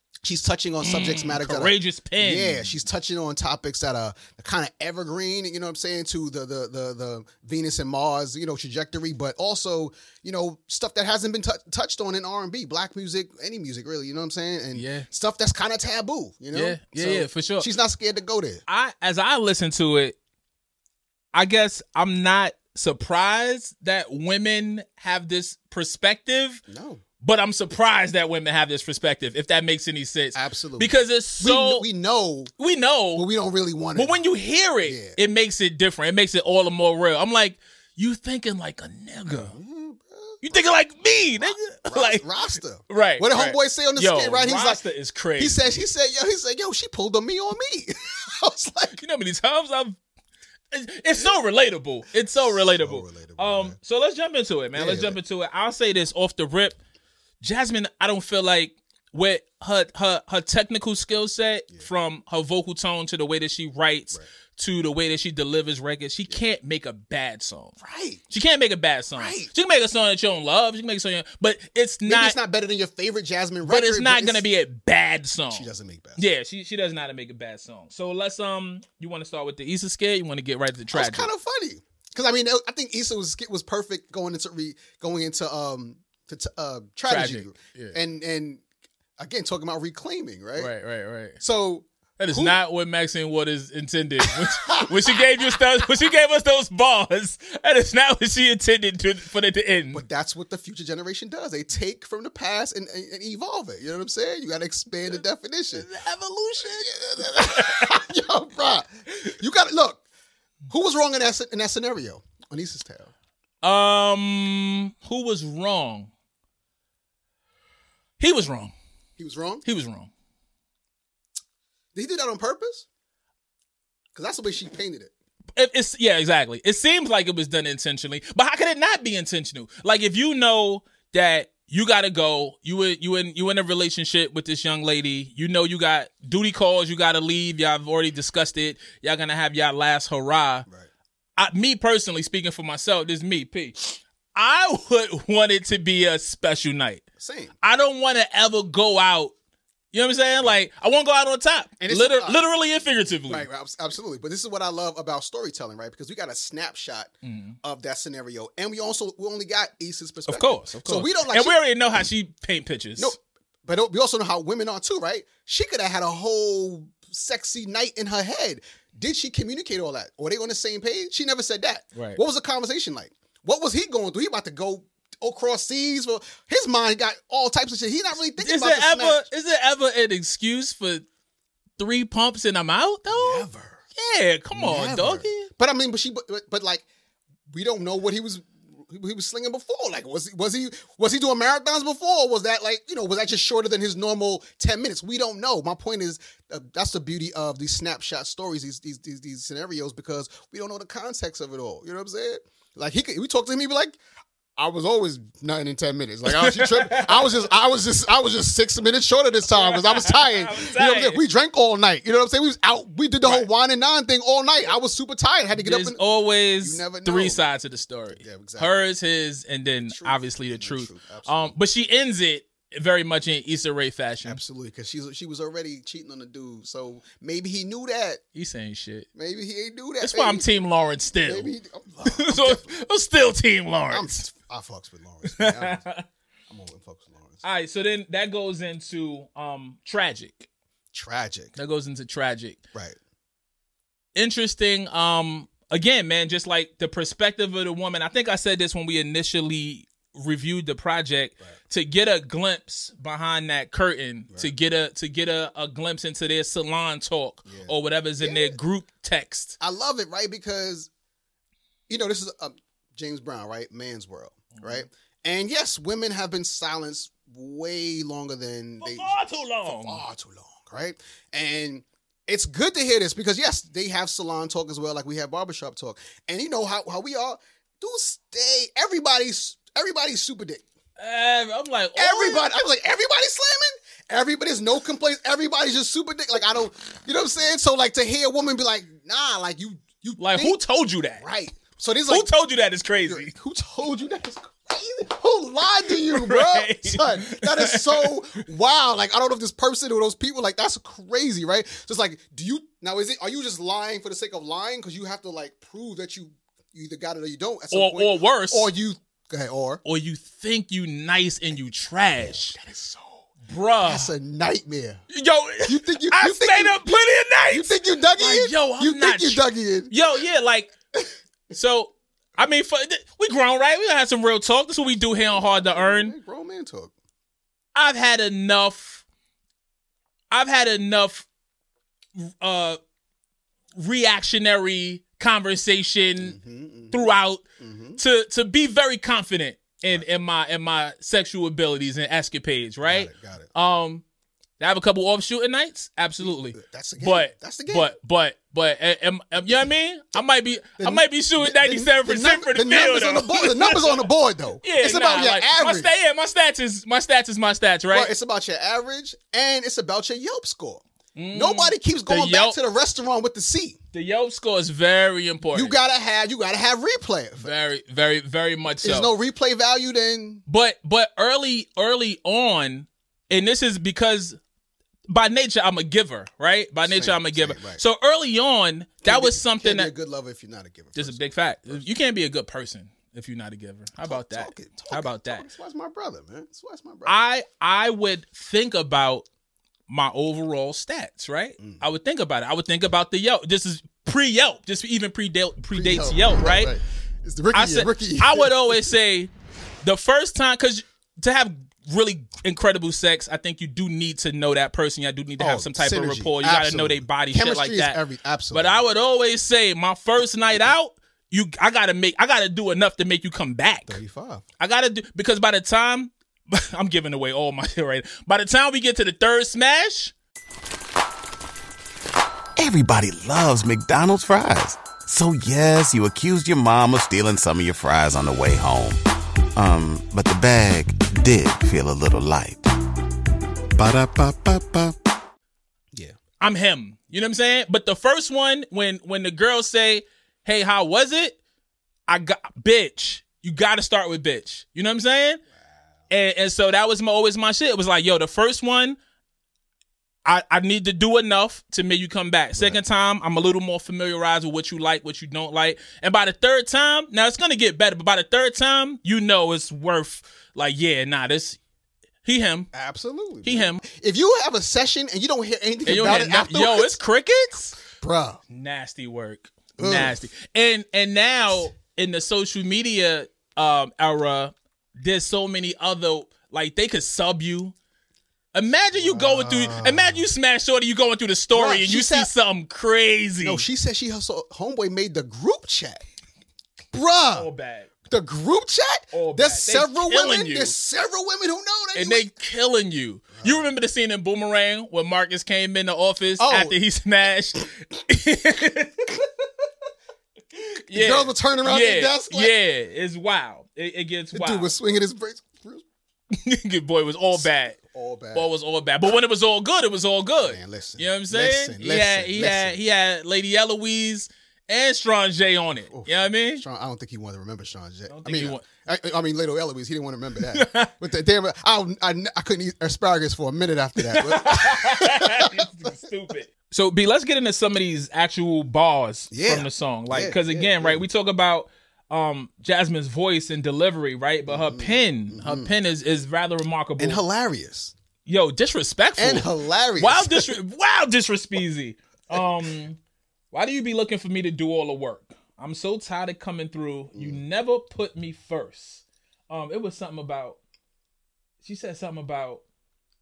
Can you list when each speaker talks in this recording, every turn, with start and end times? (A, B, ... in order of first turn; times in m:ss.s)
0:00.2-0:18.6 A
0:00.8-0:02.7 B
0:14.7-0:15.1 B
0:16.5-0:17.7 B
0:18.7-0:20.2 B
0:21.3-0:26.6 B
0:26.7-0:27.0 A
0:27.2-0:31.8 B
0:30.3-0:32.5 A
0:32.6-0:33.2 B
0:33.2-0:34.2 A
0:34.0-0:39.5 B
0:34.8-0:35.2 A
0:39.3-0:40.6 A
0:40.4-0:42.2 B
0:41.4-0:44.8 A
0:42.9-0:45.8 B
0:45.4-0:49.0 A
0:48.9-0:50.0 B
0:50.7-0:56.8 B
0:52.2-0:53.8 A
0:54.8-0:55.2 A
0:57.4-1:07.8 B
1:07.8-1:08.2 A
1:08.3-1:12.4 B
1:09.1-1:09.5 A
1:12.0-1:14.5 A
1:13.6-1:21.3 B
1:15.5-1:16.2 A
1:20.9-1:28.6 A
1:27.1-1:28.0 B
1:29.2-1:30.7 A
1:30.6-1:31.4 B
1:31.4-1:32.6 A
1:32.2-1:40.0 B
1:34.3-1:35.4 A
1:39.9-1:45.9 A
1:45.7-1:48.0 B
1:46.6-1:50.0 A
1:50.7-1:53.1 A
1:53.6-1:56.1 B
1:58.2-1:58.7 B
1:59.2-1:59.6 A
1:59.6-2:00.1 B
2:01.9-2:02.8 A
2:04.1-2:05.1 A
2:05.6-2:20.6 B
2:21.4-2:27.0 B
2:27.2-2:27.5 A
2:27.6-2:29.3 B
2:29.9-2:33.5 B
2:31.8-2:32.4 A
2:33.2-2:41.6 A
2:37.2-2:37.6 B
2:40.2-2:43.1 B
2:43.0-2:59.3 A
2:51.9-2:52.2 B
2:58.4-3:01.0 B
3:01.8-3:05.5 B
3:03.1-3:03.8 A
3:04.5-3:06.8 A
3:07.5-3:24.0 A
3:24.6-3:36.0 A
3:26.3-3:27.3 B
3:29.5-3:31.2 B
3:35.5-3:44.4 B
3:36.6-3:37.4 A
3:38.1-3:38.8 A
3:39.9-3:41.5 A
3:44.2-3:48.2 A
3:48.3-3:49.1 B
3:49.1-3:50.4 A
3:50.0-3:51.5 B
3:51.2-3:52.7 A
3:52.0-3:54.2 B
3:53.9-3:55.8 A
3:55.2-3:56.0 B
3:56.5-3:57.4 A
3:57.4-4:00.5 B
4:00.9-4:01.5 A
4:01.6-4:02.6 B
4:04.1-4:19.6 B
4:17.5-4:18.6 A
4:19.6-4:20.9 A
4:21.9-4:40.6 A
4:24.6-4:24.8 B
4:28.8-4:30.0 B
4:41.0-4:42.4 B
4:42.0-4:50.6 A
4:50.2-4:51.2 B
4:51.2-4:52.3 A
4:52.1-4:53.3 B
4:53.0-5:09.8 A
4:55.9-4:58.1 B
5:07.7-5:08.7 B
5:09.8-5:12.6 B
5:12.3-5:13.3 A
5:13.5-5:14.1 B
5:13.8-5:15.0 A
5:15.1-5:20.7 B
5:15.6-5:16.8 A
5:17.5-5:19.9 A
5:21.5-5:26.1 B
5:25.3-5:26.9 A
5:27.7-5:29.0 B
5:30.3-5:31.3 B
5:32.2-5:32.8 B
5:33.8-5:36.4 B
5:36.2-5:37.0 A
5:36.9-5:37.4 B
5:37.6-5:38.0 A
5:38.0-5:44.0 B
5:42.8-5:43.5 A
5:44.6-5:54.0 B
5:46.2-5:47.9 A
5:50.8-5:55.9 A
5:54.6-5:58.1 B
5:57.9-6:03.8 A
6:01.1-6:02.6 B
6:03.9-6:05.8 B
6:05.5-6:07.5 A
6:07.4-6:09.1 B
6:08.8-6:10.4 A
6:10.5-6:14.4 B
6:15.1-6:19.9 B
6:16.8-6:17.8 A
6:19.0-6:21.8 A
6:20.9-6:25.4 B
6:24.0-6:27.2 A
6:27.0-6:29.2 B
6:29.9-6:36.7 B
6:35.7-6:38.8 A
6:37.5-6:39.3 B
6:39.8-6:48.0 B
6:45.4-6:48.8 A
6:48.5-6:54.0 B
6:53.9-6:54.4 A
6:54.6-7:00.1 B
7:02.6-7:09.0 C
7:09.6-7:12.7 C
7:13.8-7:15.0 C
7:16.4-7:21.4 B
7:22.1-7:25.4 B
7:26.1-7:29.0 B
7:30.2-7:41.6 B
7:42.2-7:42.7 B
7:42.7-7:47.0 A
7:43.4-7:43.8 B
7:45.8-7:47.8 B
7:47.8-7:48.4 A
7:48.5-7:57.7 B
7:49.8-7:50.2 A
7:58.5-8:03.6 B
7:58.9-8:00.2 A
8:01.5-8:02.3 A
8:03.4-8:06.0 A
8:06.9-8:07.5 A
8:07.3-8:07.9 B
8:08.1-8:12.3 A
8:09.1-8:10.7 B
8:11.9-8:19.2 B
8:13.4-8:13.7 A
8:16.4-8:16.7 A
8:20.8-8:24.7 B
8:20.9-8:22.5 A
8:24.3-8:25.8 A
8:26.3-8:27.8 B
8:27.3-8:28.5 A
8:28.3-8:36.6 B
8:30.4-8:32.8 A
8:35.9-8:45.9 A
8:38.1-8:38.6 B
8:40.5-8:40.9 B
8:44.0-8:57.2 B
8:49.3-8:51.0 A
8:54.5-8:55.7 A
8:57.0-8:57.9 A
8:58.2-9:03.0 B
8:59.2-9:00.5 A
9:03.5-9:10.6 B
9:07.1-9:07.4 A
9:11.6-9:12.6 B